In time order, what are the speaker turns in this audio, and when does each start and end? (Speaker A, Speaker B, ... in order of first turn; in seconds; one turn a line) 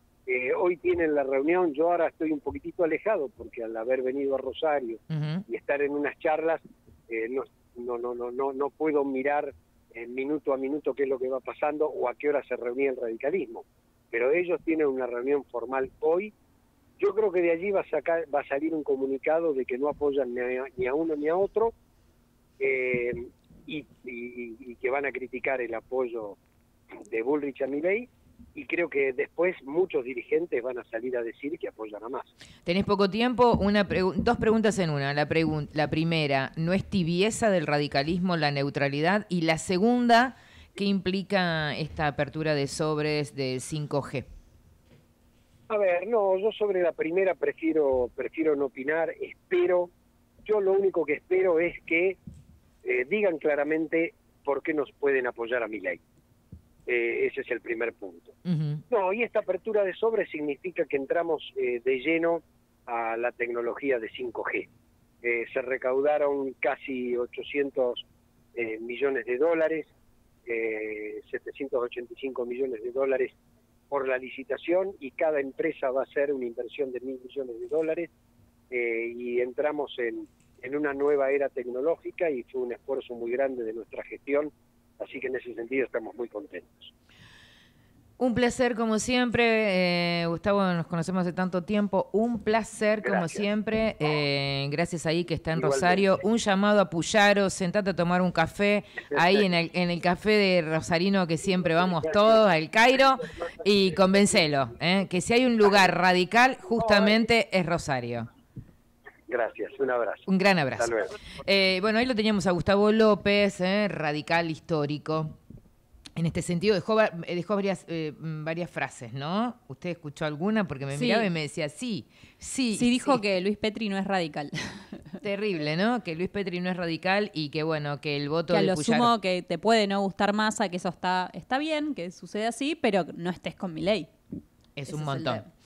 Speaker A: 0.3-16.3
Speaker B: 5.1-5.4
Speaker A: 17.0-21.8
Speaker A: 22.6-26.4
Speaker A: 27.1-32.3
Speaker B: 32.7-44.3
Speaker A: 45.7-49.9
Speaker A: 50.5-52.2
Speaker A: 52.8-56.0
Speaker A: 56.9-58.4
Speaker B: 58.5-58.8
Speaker A: 58.9-64.7
Speaker A: 65.2-69.9
Speaker A: 70.5-73.4
Speaker A: 73.9-78.1
Speaker A: 78.7-86.9
Speaker B: 88.2-108.3
Speaker A: 93.0-93.5
Speaker A: 95.6-96.1
Speaker A: 99.1-99.5
Speaker A: 106.8-107.2
Speaker A: 109.3-111.1
Speaker B: 110.3-115.4
Speaker B: 116.2-123.2
Speaker C: 120.9-121.3
Speaker C: 122.7-125.2
Speaker B: 125.2-129.1
Speaker C: 128.5-134.1
Speaker B: 134.8-135.5
Speaker C: 134.9-135.4